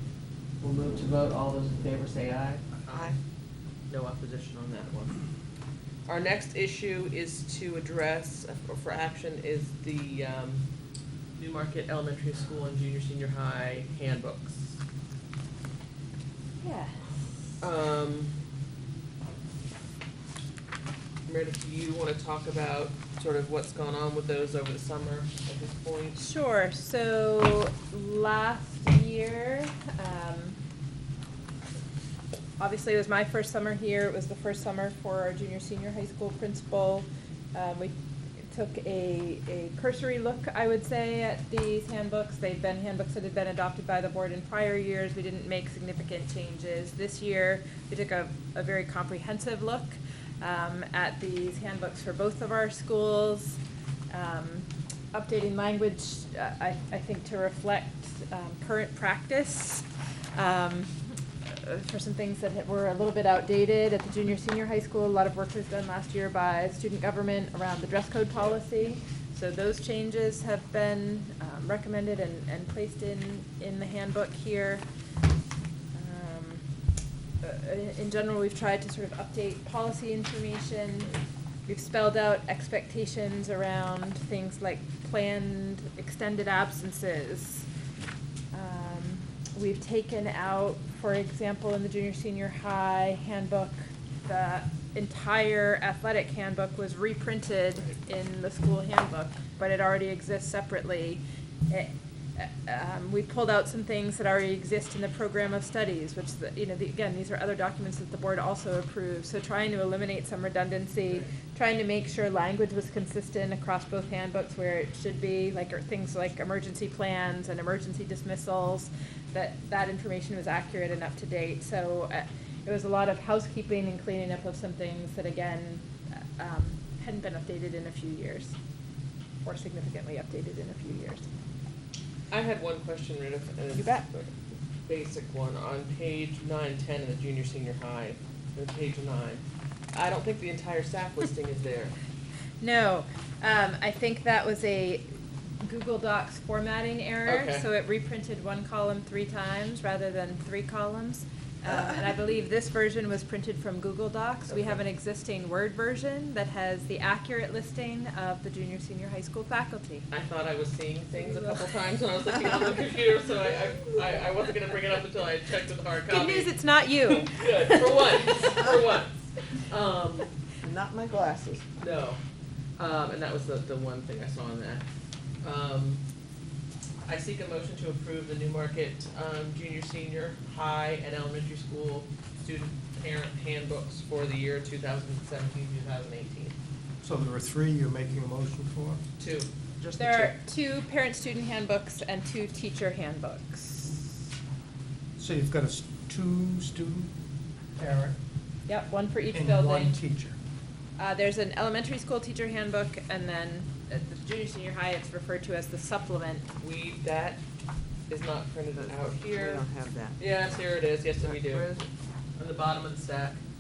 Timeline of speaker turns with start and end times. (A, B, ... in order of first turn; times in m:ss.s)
0:00.6-0:03.2 A
0:02.9-0:03.2 B
0:03.9-0:05.2 A
0:06.1-0:10.7 A
0:11.4-0:14.8 A
0:16.6-0:17.5 C
0:17.6-0:18.3 A
0:21.3-0:26.2 A
0:26.2-0:30.6 C
0:32.6-0:37.9 C
0:38.4-0:53.6 C
0:54.1-1:14.8 C
1:15.9-1:16.6 C
1:17.4-1:27.7 C
1:28.5-2:05.8 C
2:06.4-2:08.6 C
2:09.4-2:11.3 C
2:12.3-2:14.4 A
2:13.7-2:14.1 C
2:14.9-2:22.0 A
2:22.6-2:40.1 C
2:27.3-2:27.7 A
2:34.5-2:34.8 A
2:40.1-2:46.5 A
2:41.2-2:41.5 C
2:46.1-2:48.2 C
2:47.0-2:50.3 A
2:50.6-2:51.7 B
2:51.8-2:52.2 A
2:52.8-2:54.8 A
2:55.4-2:56.0 A
2:57.1-3:06.6 A
3:07.0-3:09.0 D
3:09.2-3:09.5 A
3:09.8-3:10.4 B
3:10.0-3:14.1 C
3:15.2-3:17.1 D
3:17.8-3:18.2 D
3:18.7-3:20.0 C
3:19.3-3:20.4 D
3:21.0-3:26.5 C
3:26.6-3:27.4 A
3:28.1-3:29.7 A
3:28.8-3:30.2 B
3:30.2-3:31.8 A
3:31.2-3:31.8 B
3:32.4-3:33.4 A